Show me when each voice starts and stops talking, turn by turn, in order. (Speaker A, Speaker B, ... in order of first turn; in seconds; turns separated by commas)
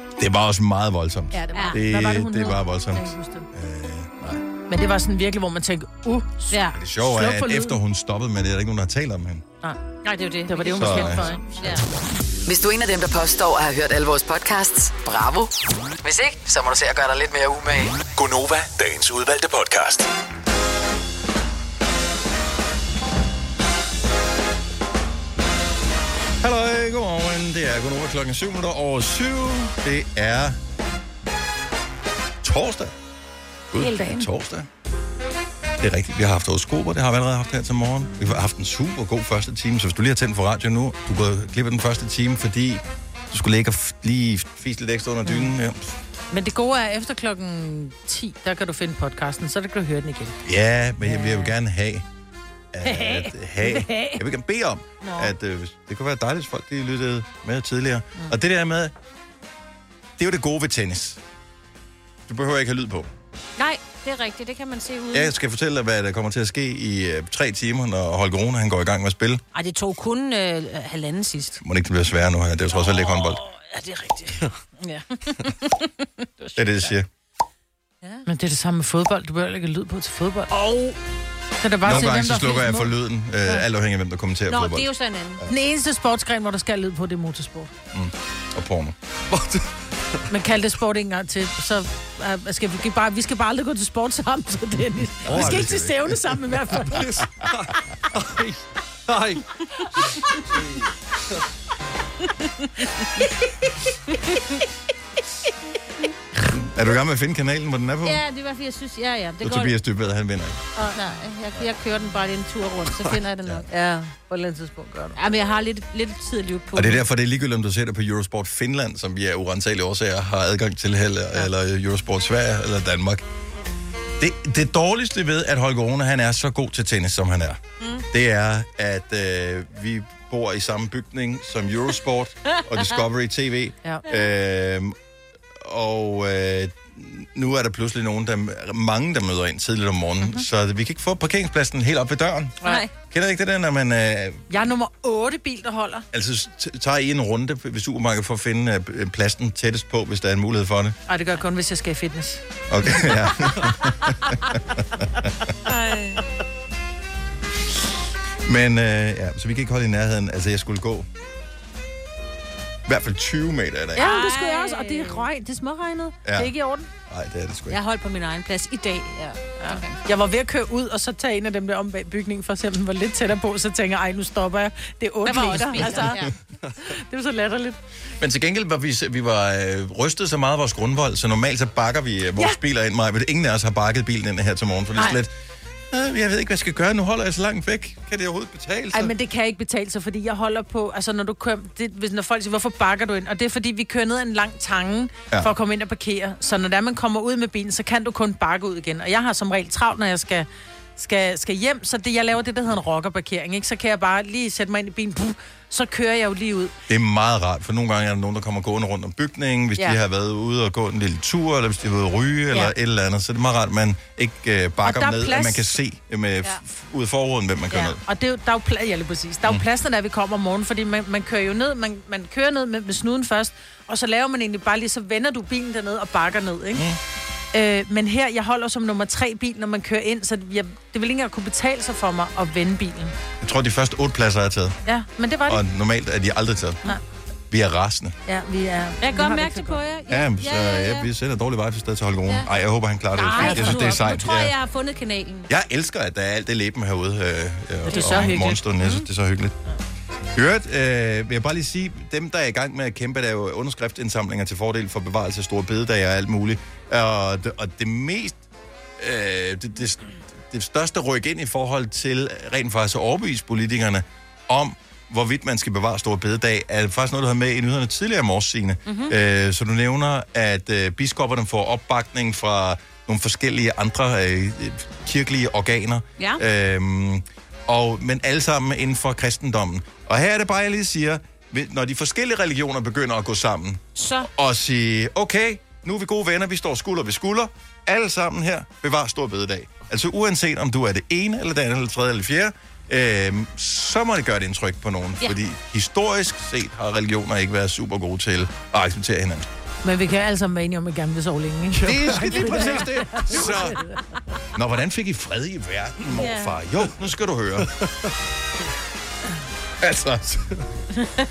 Speaker A: 0.2-4.4, Speaker B: 1.3-3.5, Speaker C: 1.5-1.8, Speaker B: 4.7-7.8, Speaker C: 6.5-6.8, Speaker A: 6.7-9.4, Speaker C: 9.9-11.8, Speaker B: 10.5-11.7, Speaker A: 10.8-11.4, Speaker D: 12.4-18.0, Speaker E: 18.1-20.1, Speaker A: 26.4-30.6, Speaker A: 32.4-32.9, Speaker A: 33.7-34.7, Speaker B: 33.8-34.3, Speaker A: 35.8-45.9, Speaker B: 46.3-50.4, Speaker A: 50.4-52.1, Speaker B: 51.0-51.5, Speaker A: 52.7-58.9, Speaker B: 52.8-54.2, Speaker A: 60.2-61.2, Speaker A: 62.3-63.1, Speaker C: 63.6-65.3, Speaker A: 65.1-69.4, Speaker C: 69.5-71.6, Speaker A: 71.6-73.4, Speaker C: 72.8-76.9, Speaker A: 76.6-77.1, Speaker B: 78.3-80.9, Speaker B: 81.6-82.9, Speaker A: 81.8-84.9, Speaker C: 84.5-85.4, Speaker B: 85.5-87.7, Speaker A: 87.9-88.9, Speaker F: 89.3-89.7, Speaker B: 90.3-97.1, Speaker A: 95.2-96.3, Speaker F: 95.3-95.8, Speaker F: 96.8-99.4, Speaker A: 106.5-108.2, Speaker C: 108.0-109.8, Speaker A: 109.4-110.6, Speaker C: 110.9-113.7, Speaker B: 113.7-115.2, Speaker C: 115.2-117.0, Speaker A: 116.8-123.2, Speaker A: 124.2-134.9, Speaker A: 135.6-144.4, Speaker C: 142.6-142.9, Speaker B: 144.5-146.1, Speaker A: 146.1-151.0, Speaker B: 151.1-152.4, Speaker A: 152.7-155.3, Speaker C: 155.7-156.2, Speaker A: 158.4-161.1, Speaker A: 162.9-164.1, Speaker C: 163.9-165.3, Speaker B: 163.9-166.9, Speaker A: 166.2-166.5, Speaker A: 167.1-167.8, Speaker C: 167.7-170.0, Speaker B: 169.6-176.2, Speaker C: 175.2-176.3, Speaker B: 176.8-177.8, Speaker A: 178.2-185.3, Speaker A: 185.9-189.1, Speaker B: 188.9-206.7, Speaker A: 206.9-218.0, Speaker B: 214.8-215.8, Speaker B: 217.7-226.8, Speaker A: 226.8-227.0, Speaker B: 227.5-233.1, Speaker A: 233.4-234.8, Speaker B: 234.9-235.6, Speaker A: 235.5-236.8, Speaker A: 237.5-238.2, Speaker B: 238.3-239.8, Speaker C: 239.0-241.1, Speaker A: 240.1-244.6, Speaker C: 243.1-245.5, Speaker B: 243.3-243.9, Speaker A: 245.5-249.6, Speaker B: 247.9-248.6, Speaker C: 247.9-249.1, Speaker A: 250.3-258.4, Speaker A: 259.0-299.4, Speaker C: 268.9-269.1, Speaker C: 283.9-284.3, Speaker B: 299.8-303.9, Speaker F: 301.7-302.7, Speaker A: 301.8-303.8, Speaker A: 304.6-307.7, Speaker C: 306.1-306.6, Speaker A: 309.8-310.5